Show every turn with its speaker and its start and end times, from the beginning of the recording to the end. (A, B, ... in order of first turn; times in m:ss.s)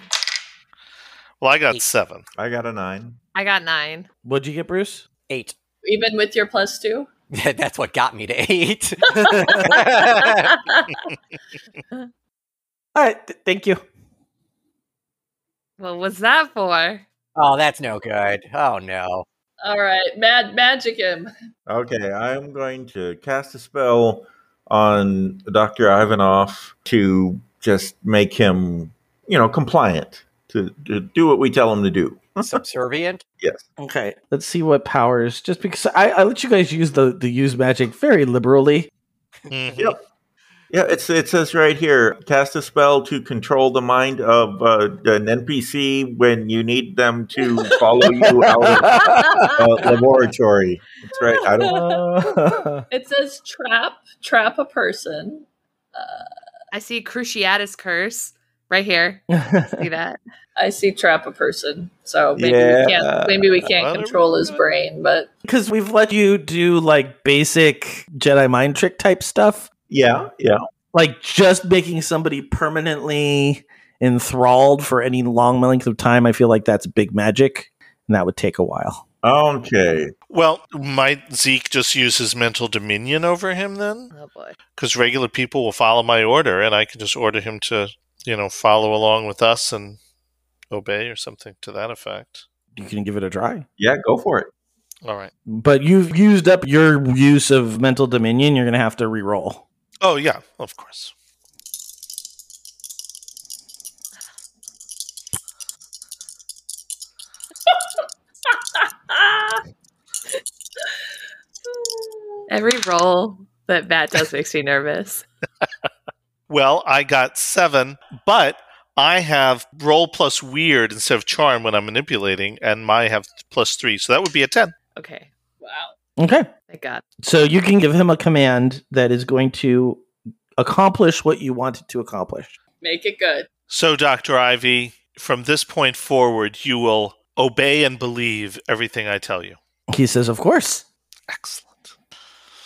0:01.4-0:02.3 A
0:02.4-0:03.2 B
0:03.4-0:04.1 C
0:04.2-0:05.0 D
0:05.3-0:05.6 E
0:05.8-0:07.1 F
0:07.3-0:10.6 E
0:09.3-0:09.7 D
0:13.0-0:13.8 D
0:15.8-0:17.0 C
0:17.4-0:19.3 E
0:19.6-0:21.3 F
0:21.7-0:32.6 B
0:32.4-0:33.2 E
0:33.8-0:38.9 D
0:39.5-0:39.9 A
0:40.7-0:52.2 B
0:48.2-0:49.5 D
0:51.6-0:52.0 F
0:51.6-0:52.8 D
0:52.9-0:56.3 F
0:56.7-1:00.2 C
0:59.3-0:59.9 D
1:00.6-1:05.3 F
1:02.4-1:03.6 B
1:03.6-1:04.6 A
1:05.4-1:09.7 D
1:09.9-1:10.6 B
1:10.9-1:19.0 D
1:19.2-1:20.1 B
1:20.3-1:24.1 A
1:24.1-1:24.6 C
1:24.8-1:30.0 A
1:30.7-1:32.5 A
1:32.7-1:33.7 D
1:33.8-1:34.5 B
1:35.0-1:35.3 A
1:35.5-1:39.6 D
1:40.0-1:41.1 A
1:49.1-1:49.6 F
1:52.5-1:55.2 C
1:56.5-2:04.7 A
2:05.0-2:05.3 C
2:05.6-2:05.9 F
2:06.2-2:06.5 D
2:06.7-2:07.0 C
2:07.2-2:10.0 D
2:10.6-2:12.6 D
2:12.8-2:13.5 F
2:13.7-2:19.6 A
2:19.9-2:20.8 D
2:21.3-2:21.9 A